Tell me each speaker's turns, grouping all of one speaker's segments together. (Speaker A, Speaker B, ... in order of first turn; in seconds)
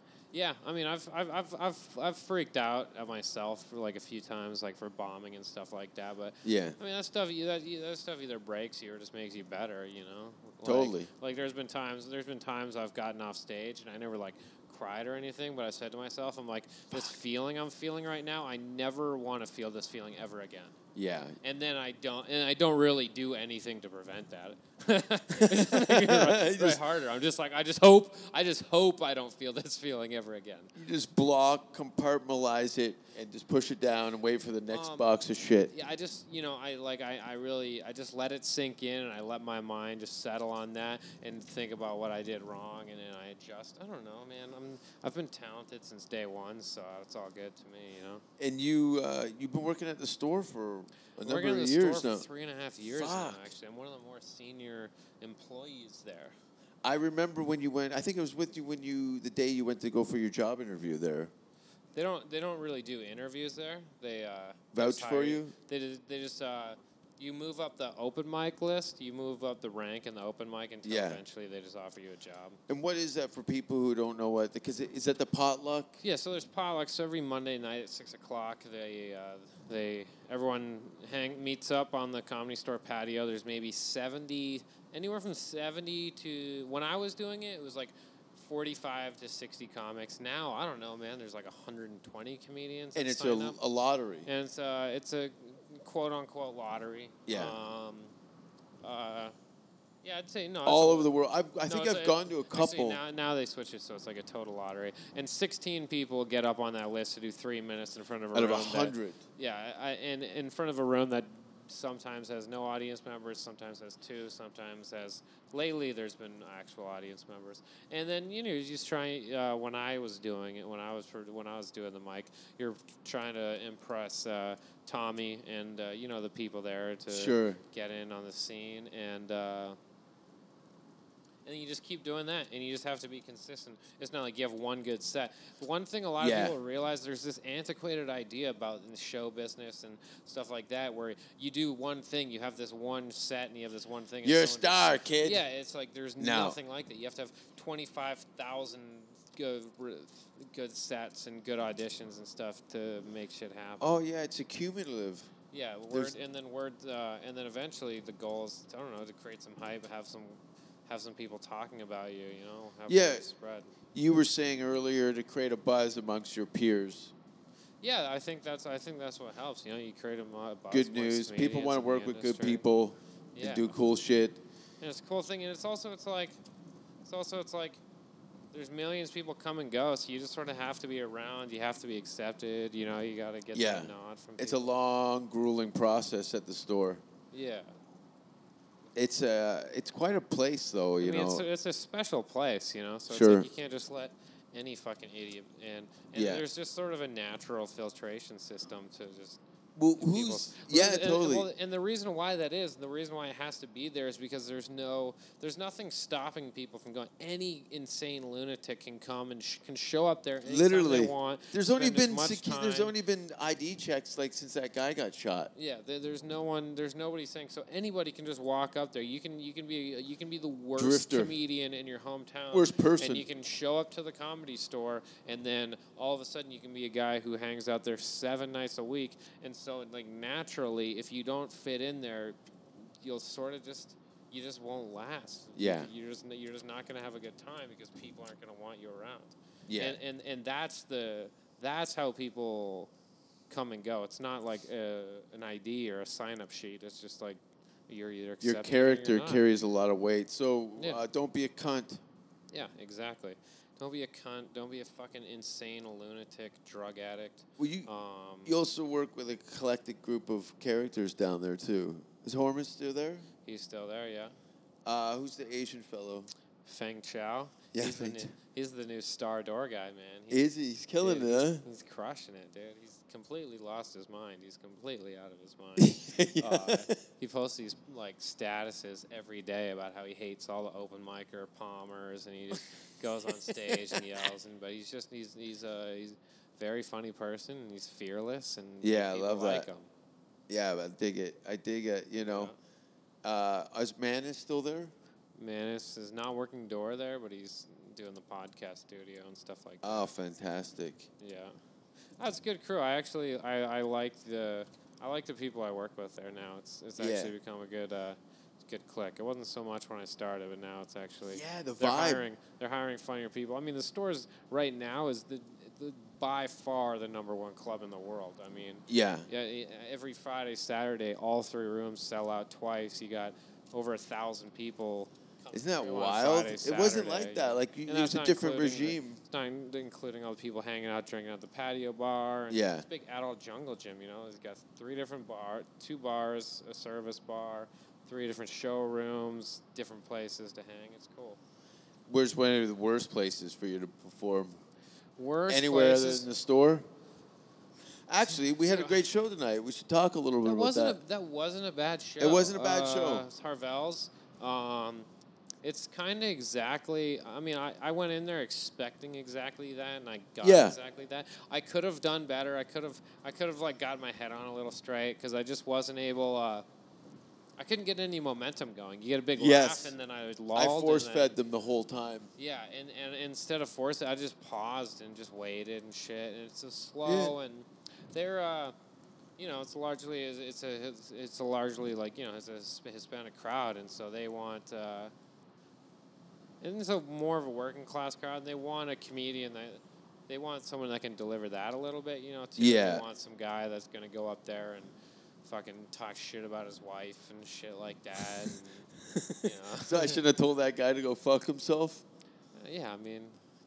Speaker A: 0.3-20.8, 21.4-30.7, 34.7-35.1, 35.7-48.2, 51.2-56.4, 62.0-72.6, 76.0-93.6, 94.3-98.1, 98.8-99.3, 100.0-101.1, 101.7-129.8, 131.4-153.9, 155.5-163.7, 167.8-172.6, 173.3-173.8, 174.8-176.4, 177.1-177.8, 178.5-184.7, 187.3-187.8, 191.0-199.4, 200.0-212.9, 215.6-242.9, 243.5-249.5, 250.8-251.0, 252.5-258.6, 263.4-264.4, 266.6-270.5, 271.0-289.9, 292.2-292.6, 295.4-300.1, 301.2-301.6, 302.2-341.4, 345.2-346.3, 348.5-349.0, 350.4-355.1, 355.6-366.6, 367.6-371.3, 372.4-378.8, 379.4-385.1, 386.6-394.9, 395.4-400.2, 402.6-403.4
Speaker B: 6.4-6.8, 10.6-11.1, 20.9-21.4, 25.4-26.8, 30.8-35.7, 48.4-52.3, 52.8-53.5, 56.8-61.3, 64.7-65.5, 70.8-71.2, 72.7-76.0, 93.0-94.3, 97.3-97.6, 100.7-103.0, 108.3-109.2, 127.1-127.6, 136.2-136.6, 144.2-145.4, 146.2-146.6, 153.8-155.3, 162.9-163.2, 163.9-167.1, 170.7-174.4, 183.5-187.0, 188.9-191.5, 193.1-193.5, 196.1-196.4, 199.8-201.5, 210.5-215.5, 220.8-221.3, 222.5-223.3, 235.6-235.9, 239.7-240.0, 248.4-252.0, 257.6-257.9, 258.4-263.3, 264.9-266.3, 267.7-268.3, 270.3-271.6, 275.8-276.9, 288.8-289.7, 290.5-292.5, 293.2-294.9, 299.8-301.1, 307.0-307.3, 311.3-312.3, 318.9-319.3, 325.5-329.2, 332.5-332.9, 342.1-344.6, 345.5-346.9, 348.1-351.0, 352.2-353.3, 360.4-360.8, 369.4-369.9, 370.6-372.3, 377.1-377.4, 392.6-393.0, 399.1-402.1